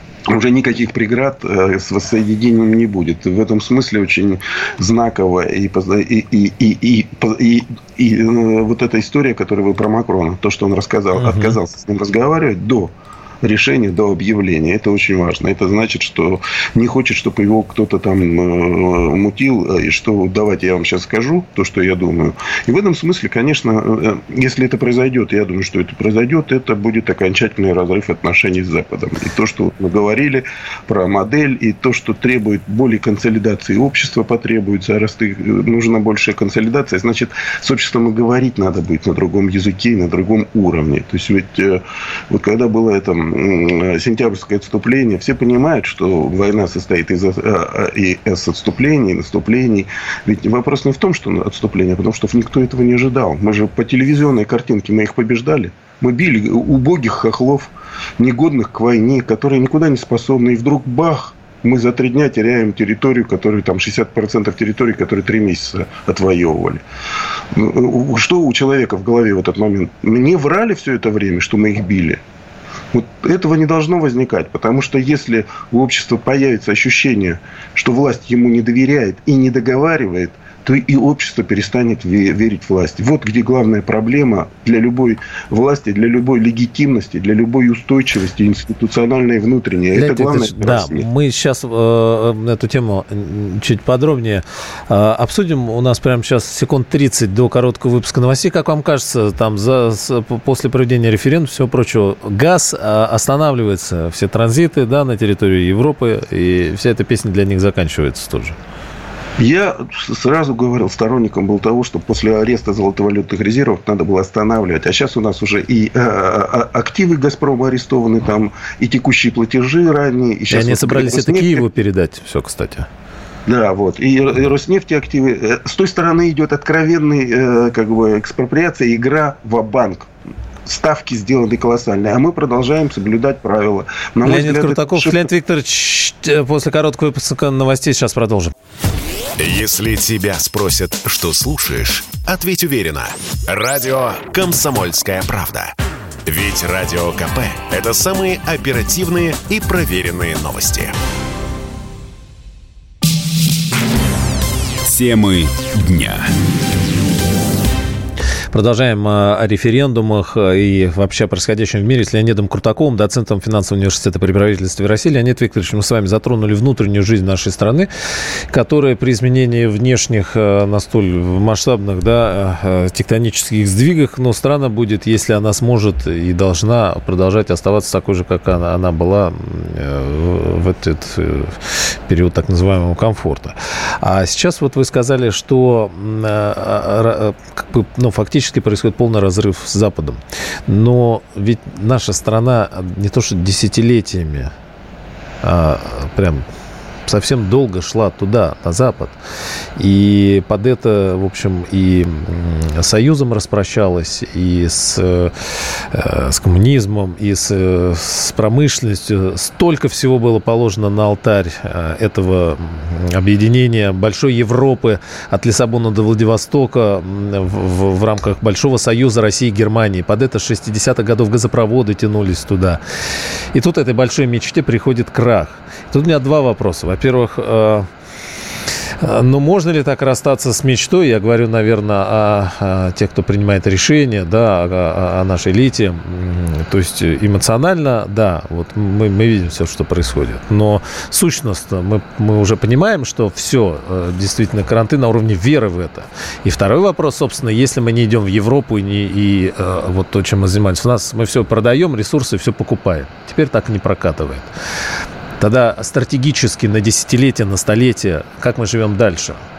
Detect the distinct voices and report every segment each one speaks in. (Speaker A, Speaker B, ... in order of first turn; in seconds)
Speaker A: 0.3-66.8, 67.5-72.2, 72.9-91.1, 109.4-121.7, 123.5-130.1, 130.7-135.3
Speaker B: 11.2-11.6, 89.9-108.6, 120.5-122.9, 134.2-138.5, 158.5-167.9, 168.5-194.5, 195.4-196.5, 197.1-199.2, 199.8-222.8, 223.5-227.9, 229.0-254.5, 255.4-259.4
Speaker C: 139.4-145.7, 146.3-150.9, 154.8-156.3